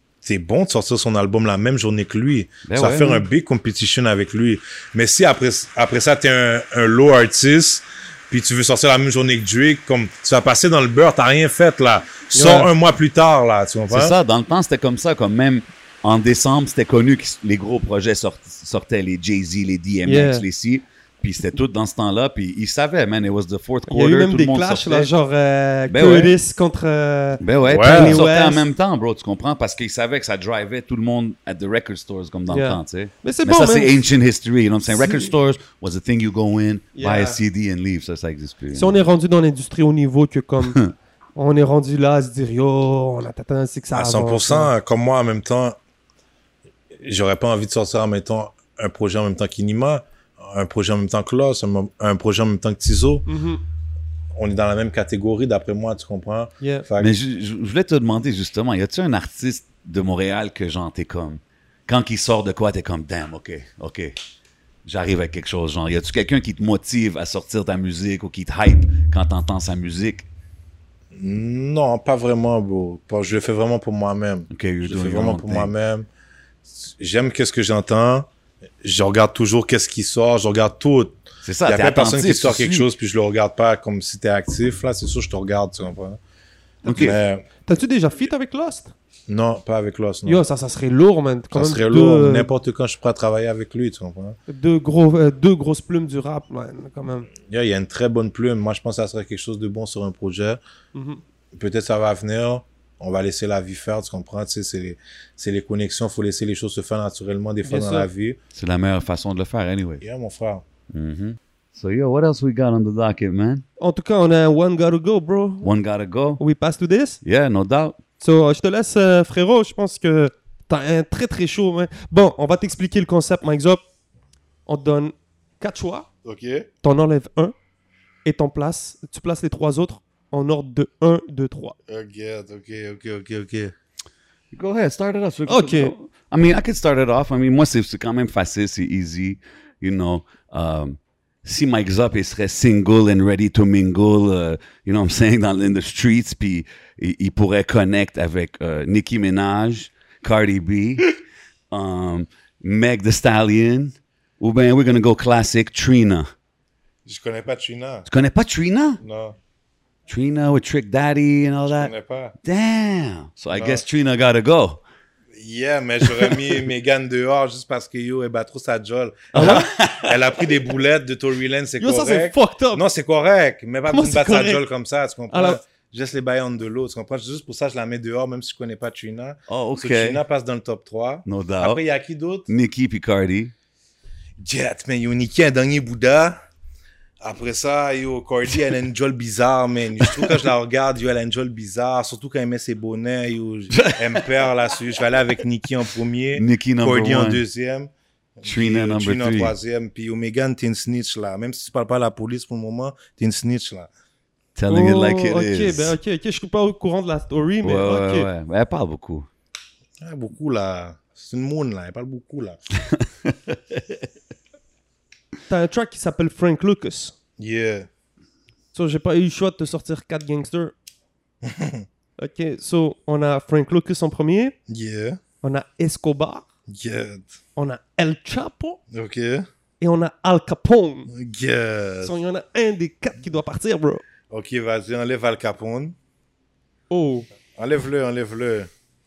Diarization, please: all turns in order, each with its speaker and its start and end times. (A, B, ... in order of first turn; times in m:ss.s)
0:00.2-0:14.2 A
0:02.7-0:03.3 B
0:12.3-0:12.7 C
0:13.9-0:25.1 B
0:20.1-0:20.4 C
0:23.9-0:28.6 C
0:25.9-0:26.4 B
0:27.4-0:39.0 B
0:27.7-0:28.2 A
0:32.5-0:34.0 C
0:34.9-0:35.3 C
0:37.0-0:37.4 C
0:38.7-0:40.8 C
0:40.7-0:40.9 B
0:41.4-0:44.7 C
0:43.9-0:45.8 A
0:47.0-0:53.3 A
0:53.3-0:53.6 C
0:54.4-0:57.2 A
0:56.6-0:56.9 C
0:57.0-1:04.1 B
1:04.8-1:10.3 B
1:11.1-1:16.1 A
1:14.5-1:15.7 B
1:16.7-1:18.3 A
1:18.8-1:26.2 A
1:21.4-1:22.9 B
1:26.8-1:27.2 B
1:26.8-1:28.9 C
1:26.9-1:27.4 A
1:29.3-1:30.4 A
1:30.3-1:32.5 C
1:31.5-1:34.4 A
1:34.5-1:37.3 C
1:37.5-1:40.6 A
1:40.9-1:41.2 C
1:41.5-1:48.4 A
1:47.6-1:48.1 C
1:48.6-1:50.0 B
1:50.0-1:50.6 A
1:50.9-1:53.6 B
1:53.8-1:55.7 C
1:55.6-1:56.4 B
1:56.4-1:57.2 C
1:57.2-1:58.0 B
1:58.2-2:03.8 C
2:04.7-2:06.1 C
2:06.2-2:06.7 A
2:06.8-2:07.5 C
2:08.2-2:11.8 C
2:11.9-2:13.7 A
2:14.5-2:31.1 B
2:15.5-2:15.9 C
2:31.7-2:36.3 B
2:37.0-2:38.1 A
2:38.1-2:39.0 B
2:39.0-2:39.4 A
2:40.1-2:41.9 B
2:41.7-2:42.4 A
2:42.4-2:44.8 B
2:43.5-2:43.8 A
2:45.3-3:02.5 A
2:49.3-2:50.3 B
2:49.4-2:49.6 C
2:51.8-2:52.8 C
2:53.9-2:54.6 C
2:55.3-2:55.6 C
2:59.5-3:00.2 B
3:01.3-3:01.8 B
3:02.5-3:03.5 B
3:04.4-3:06.4 A
3:07.2-3:23.9 A
3:10.0-3:10.5 B
3:13.7-3:14.4 B
3:16.4-3:17.4 B
3:18.4-3:19.6 B
3:24.6-3:26.0 B
3:24.7-3:28.3 C
3:27.6-3:29.3 B
3:30.0-3:32.6 A
3:32.9-3:34.0 B
3:35.5-3:37.2 C
3:37.4-3:37.9 A
3:38.7-3:40.7 C
3:41.4-3:41.8 A
3:42.2-3:44.6 C
3:44.7-3:45.2 A
3:45.4-3:46.4 C
3:46.7-3:47.3 A
3:47.6-3:48.8 C
3:48.9-3:49.5 A
3:49.8-3:51.1 C
3:51.1-3:52.1 A
3:52.0-3:54.0 C
3:54.3-3:56.0 A
3:56.9-3:57.3 C
3:57.6-3:58.7 A